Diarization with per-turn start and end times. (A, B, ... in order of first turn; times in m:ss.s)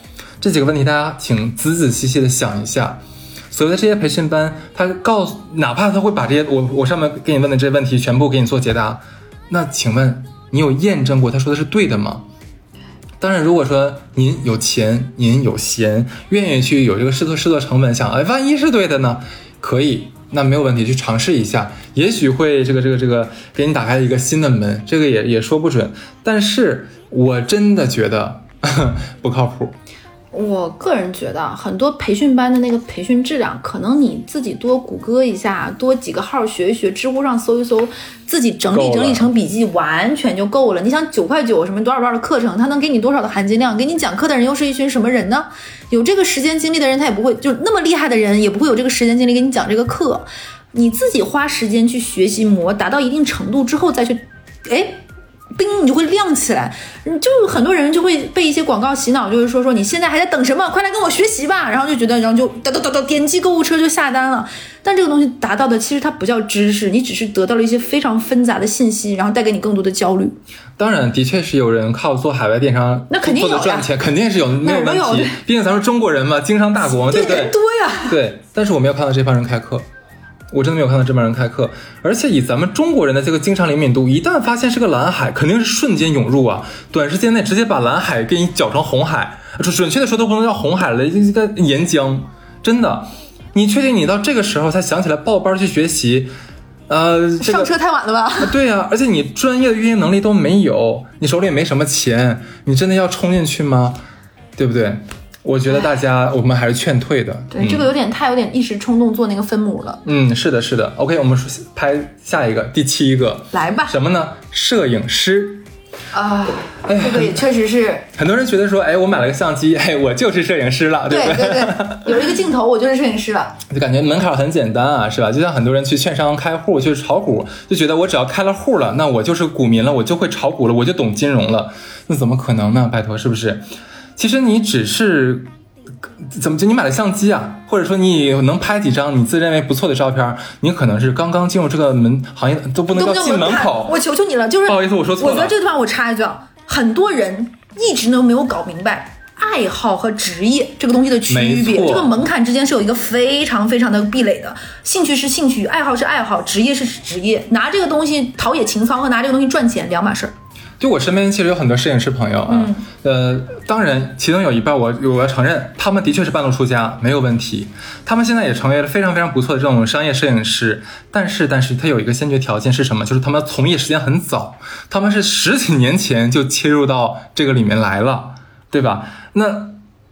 0:00.4-0:12.3 A
0:13.2-0:29.8 A
0:30.3-0:55.0 B
0:38.7-0:39.3 A
0:55.6-1:10.4 B
1:10.8-1:17.6 A
1:13.1-1:13.9 B
1:14.6-1:15.4 B
1:17.1-1:18.2 B
1:18.1-1:19.9 A
1:20.5-1:36.3 A
1:36.9-1:37.7 A
1:37.4-1:38.6 B
1:38.4-1:44.0 A
1:44.6-1:47.9 A
1:47.5-1:50.0 B
1:50.0-1:55.6 A
1:53.5-1:54.0 B
1:56.1-1:58.1 B
1:56.8-1:57.4 A
1:58.2-2:02.3 A
2:01.1-2:03.6 B
2:03.7-2:13.7 A
2:14.2-2:15.5 A
2:16.2-2:24.0 A
2:22.9-2:40.3 B
2:24.7-2:25.6 A
2:31.3-2:32.2 A
2:40.8-2:59.8 A
2:42.5-2:42.8 B